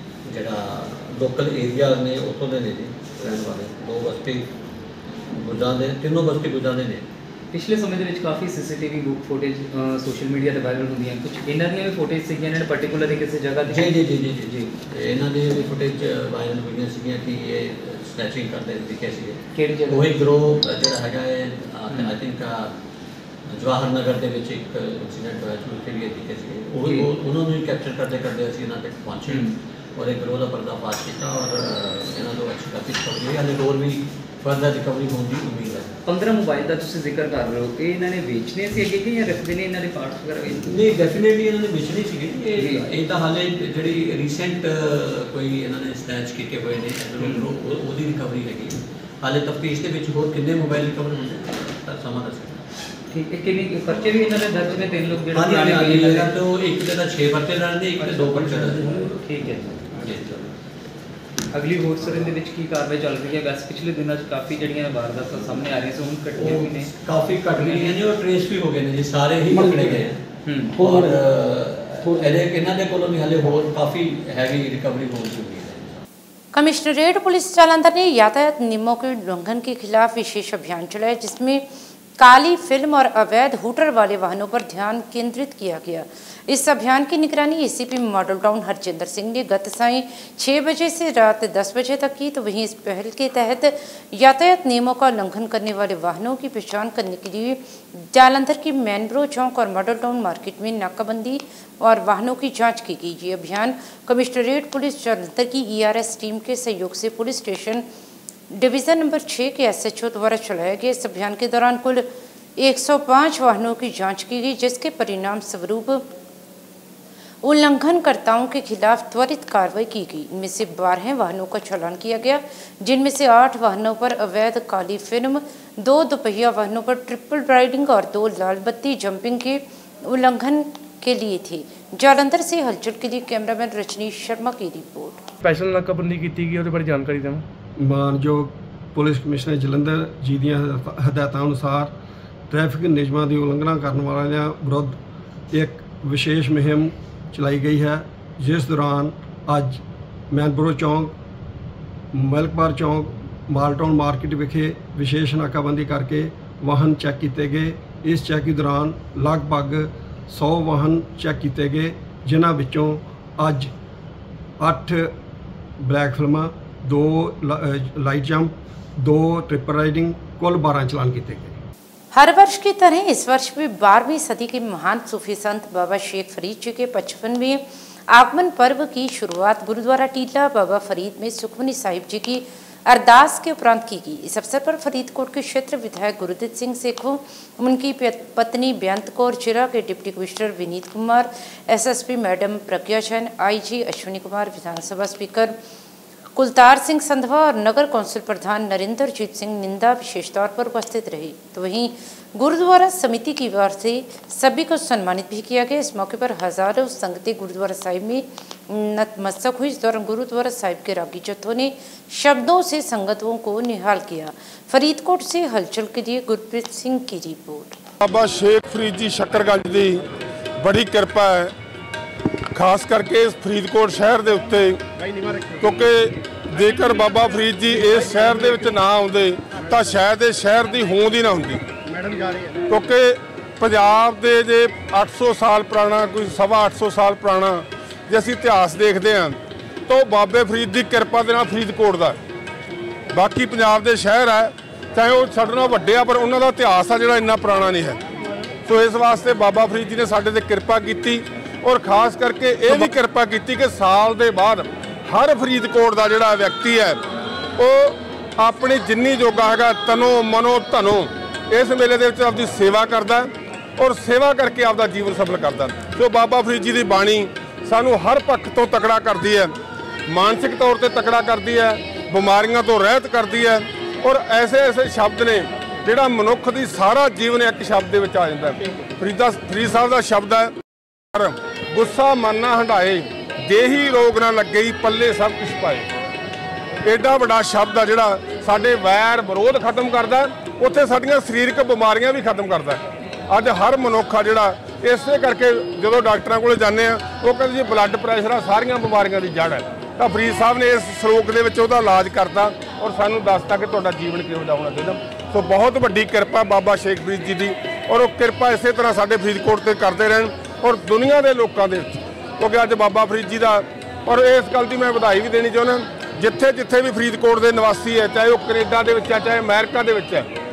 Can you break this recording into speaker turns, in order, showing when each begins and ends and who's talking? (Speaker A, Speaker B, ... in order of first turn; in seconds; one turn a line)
Speaker A: 0.3-4.5
Speaker A: 5.4-7.1
Speaker B: 7.5-14.6
Speaker A: 13.7-22.8
Speaker B: 19.6-20.2
Speaker A: 23.5-36.0
Speaker B: 26.8-27.1
Speaker B: 29.3-29.5
Speaker B: 36.1-40.7
Speaker A: 40.6-52.7
Speaker B: 42.6-42.9
Speaker B: 47.2-47.5
Speaker B: 53.1-56.3
Speaker A: 53.9-59.3
Speaker B: 58.0-60.2
Speaker A: 59.9-60.5
Speaker B: 61.5-66.9
Speaker A: 62.0-62.3
Speaker A: 66.3-70.2
Speaker B: 67.5-67.9
Speaker B: 70.5-71.0
Speaker A: 70.8-76.0
Speaker C: 76.5-81.7
Speaker C: 82.2-107.9
Speaker C: 108.5-116.1
Speaker C: 117.4-135.2
Speaker D: 135.5-137.2
Speaker E: 137.8-141.9
Speaker E: 142.5-145.0
Speaker E: 145.5-151.2
Speaker E: 152.1-163.7
Speaker E: 164.6-165.1
Speaker E: 165.8-171.6
Speaker C: 172.1-195.6
Speaker C: 196.3-217.8
Speaker F: 218.0-220.0
Speaker F: 220.6-221.5
Speaker F: 222.5-224.8
Speaker F: 225.6-231.6
Speaker D: 227.2-228.8
Speaker F: 232.7-239.4
Speaker F: 239.9-242.2
Speaker F: 243.1-248.0
Speaker F: 248.7-257.0
Speaker F: 257.6-269.6
Speaker F: 270.1-280.5
Speaker F: 281.1-285.9
Speaker F: 286.9-320.3